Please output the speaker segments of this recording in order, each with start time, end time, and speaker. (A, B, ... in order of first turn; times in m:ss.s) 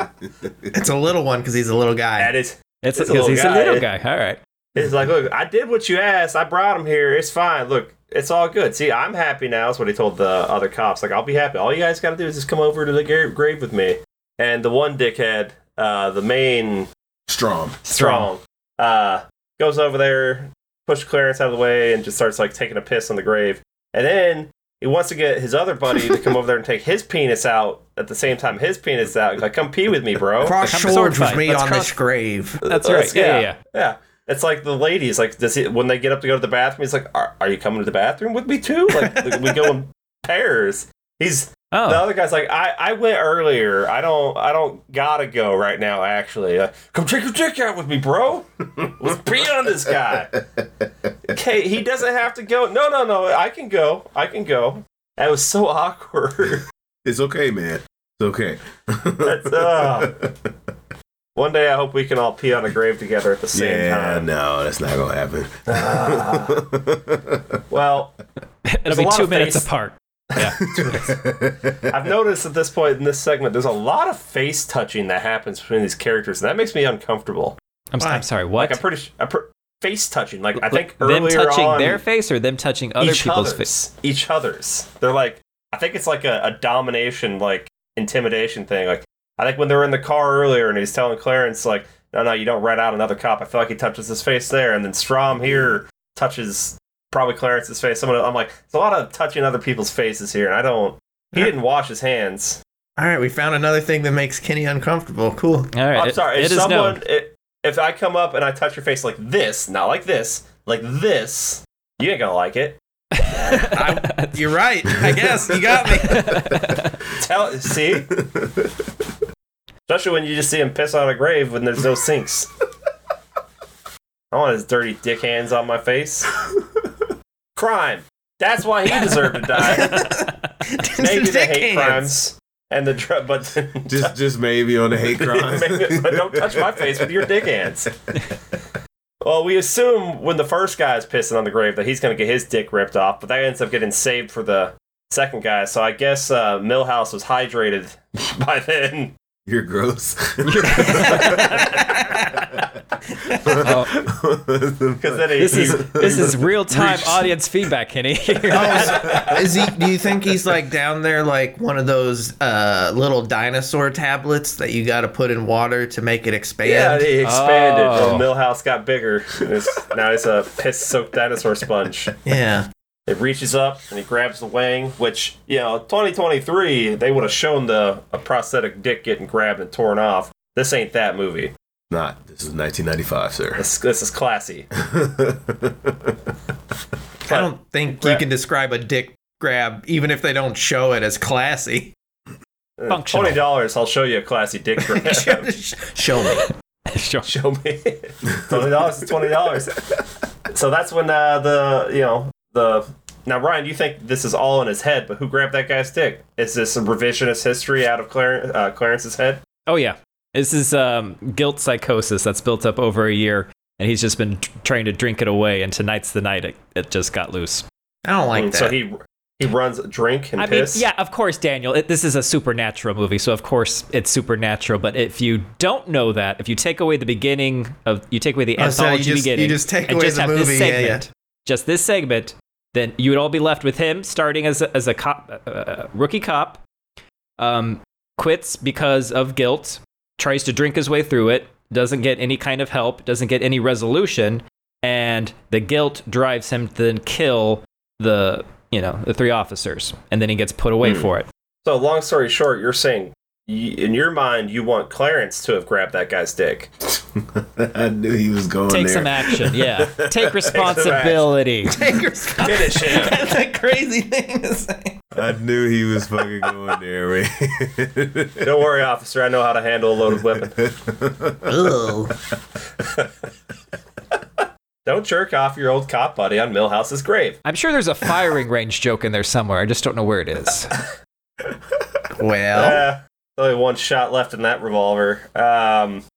0:00.7-0:02.3 A
0:02.2-0:03.8 B
0:02.8-0:04.4 C
0:04.8-0:16.9 B
0:17.3-0:17.8 D
0:17.8-0:18.3 C
0:17.9-0:30.6 B
0:30.4-0:32.6 A
0:30.6-0:31.9 C
0:32.6-0:50.3 B
0:32.6-0:33.6 C
0:41.7-0:42.0 C
0:51.3-0:56.6 B
0:57.0-1:00.5 D
0:59.2-1:00.1 B
1:01.4-1:04.3 B
1:03.5-1:07.6 D
1:05.7-1:06.6 B
1:07.7-1:08.2 B
1:08.7-1:10.6 C
1:08.9-1:09.7 B
1:10.4-1:11.0 B
1:10.6-1:11.9 D
1:11.9-1:17.6 B
1:17.9-1:18.8 C
1:18.0-1:18.2 A
1:18.6-1:22.0 B
1:20.6-1:23.7 C
1:23.0-1:42.6 B
1:35.4-1:35.7 D
1:43.0-1:45.7 A
1:45.7-1:47.0 C
1:45.9-1:53.7 B
1:53.1-1:54.5 C
1:53.5-1:56.5 A
1:55.6-1:57.0 C
1:57.1-1:58.1 B
1:58.1-1:58.9 D
1:59.9-2:02.5 B
2:04.3-2:06.3 B
2:06.5-2:06.9 D
2:07.6-2:10.0 B
2:08.9-2:10.3 C
2:09.6-2:12.1 A
2:11.0-2:14.2 B
2:13.9-2:17.5 D
2:15.1-2:17.9 B
2:19.2-2:29.1 B
2:29.5-2:31.8 D
2:30.4-2:32.2 C
2:31.0-2:32.5 A
2:32.4-2:32.6 D
2:33.1-2:33.7 A
2:33.4-2:37.3 D
2:33.6-2:34.0 C
2:35.0-2:36.4 B
2:35.4-2:39.4 C
2:38.5-2:47.1 A
2:38.6-2:39.4 B
2:46.6-2:52.1 B
2:47.2-2:48.3 C
2:52.2-2:52.7 A
2:53.1-3:01.5 B
3:01.9-3:03.6 D
3:03.6-3:04.7 B
3:04.8-3:06.2 D
3:07.3-3:08.2 B
3:07.3-3:11.9 A
3:12.8-3:15.5 B
3:12.9-3:13.4 C
3:14.8-3:16.5 A
3:16.2-3:17.3 C
3:17.2-3:19.8 B
3:20.5-3:29.4 B
3:29.7-3:37.6 C
3:38.0-3:38.8 A
3:38.4-3:40.8 B
3:40.4-3:56.6 C
3:48.6-3:51.0 A
3:57.4-4:11.3 C
4:11.6-4:16.7 B
4:16.8-4:20.5 D
4:18.7-4:21.8 C
4:20.5-4:21.3 B
4:21.7-4:25.0 A
4:22.4-4:23.2 B
4:25.2-4:28.5 D
4:28.4-4:30.6 B
4:30.3-4:31.8 D
4:31.5-4:32.1 A
4:32.8-4:33.1 B
4:34.9-4:37.4 B
4:37.4-4:40.7 C
4:42.2-4:42.8 A
4:42.5-4:46.0 B